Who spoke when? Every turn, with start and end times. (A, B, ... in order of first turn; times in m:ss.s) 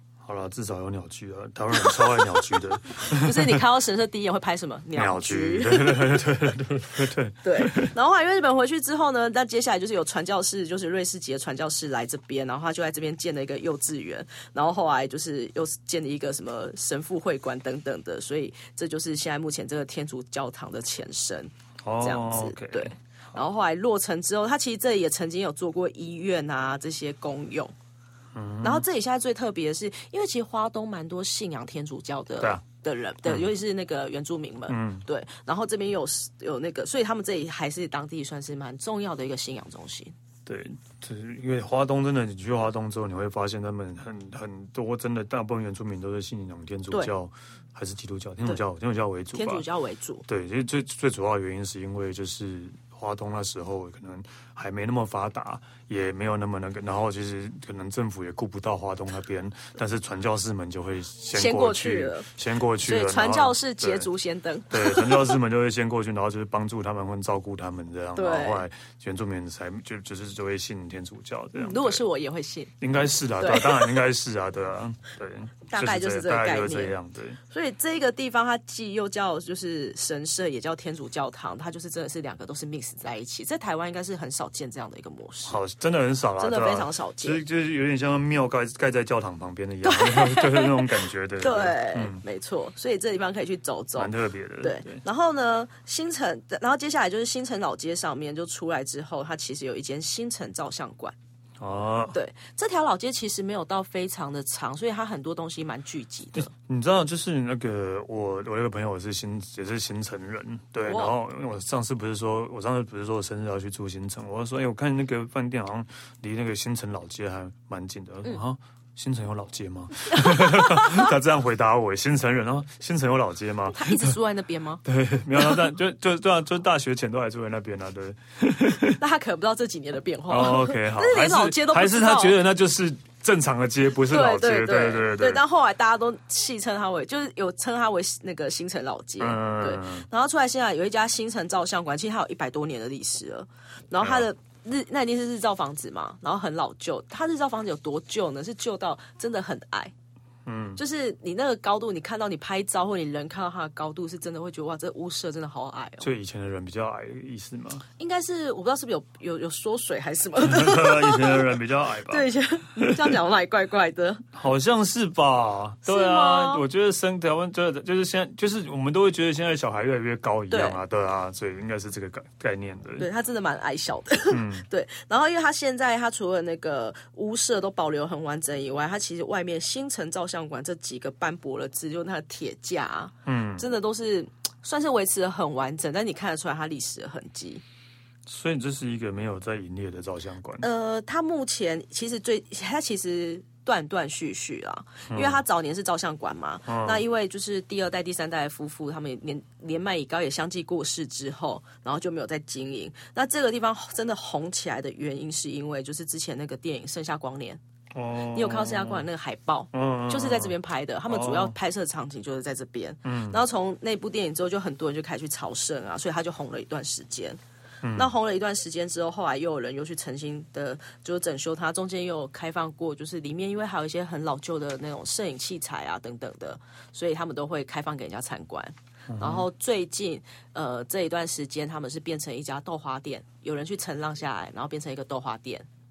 0:00.2-0:03.6 A
0:01.8-0:06.3 B
0:05.0-0:07.9 A
0:07.4-0:27.7 B
0:21.8-0:22.9 A
0:28.3-0:28.8 A
0:28.6-0:40.1 B
0:34.7-0:35.0 A
0:40.5-0:49.7 A
0:49.3-0:50.2 B
0:50.3-1:04.1 A
1:01.3-1:02.3 B
1:02.8-1:05.4 B
1:04.7-1:12.0 A
1:08.2-1:08.7 B
1:11.6-1:12.7 B
1:12.8-1:17.4 A
1:13.4-1:14.0 B
1:15.7-1:16.9 B
1:17.5-1:25.6 B
1:25.5-1:32.2 A
1:26.4-1:27.4 B
1:29.8-1:41.2 B
1:34.0-1:35.0 A
1:41.6-1:42.2 A
1:42.1-1:46.5 B
1:46.4-2:04.2 A
1:50.9-1:51.2 B
2:00.1-2:01.1 B
2:03.7-2:04.8 B
2:04.8-2:09.0 A
2:09.0-2:12.4 B
2:10.3-2:15.4 A
2:14.1-2:29.9 B
2:19.2-2:20.1 A
2:24.0-2:24.3 A
2:30.5-2:30.8 A
2:30.8-2:36.1 B
2:36.0-2:37.8 A
2:38.0-2:41.6 B
2:40.4-2:43.2 A
2:42.1-2:44.2 B
2:44.4-2:53.1 A
2:45.9-2:46.6 B
2:50.5-2:50.8 B
2:53.0-3:07.6 B
2:54.3-2:54.7 A
3:03.3-3:03.6 A
3:08.3-3:10.7 A
3:10.6-3:27.6 B
3:15.1-3:15.4 A
3:16.7-3:17.0 A
3:27.9-3:29.1 A
3:28.3-3:37.4 B
3:29.7-3:30.6 A
3:31.1-3:31.5 A
3:33.0-3:33.4 A
3:37.8-3:38.1 A
3:38.0-3:55.7 B
3:49.1-3:49.5 A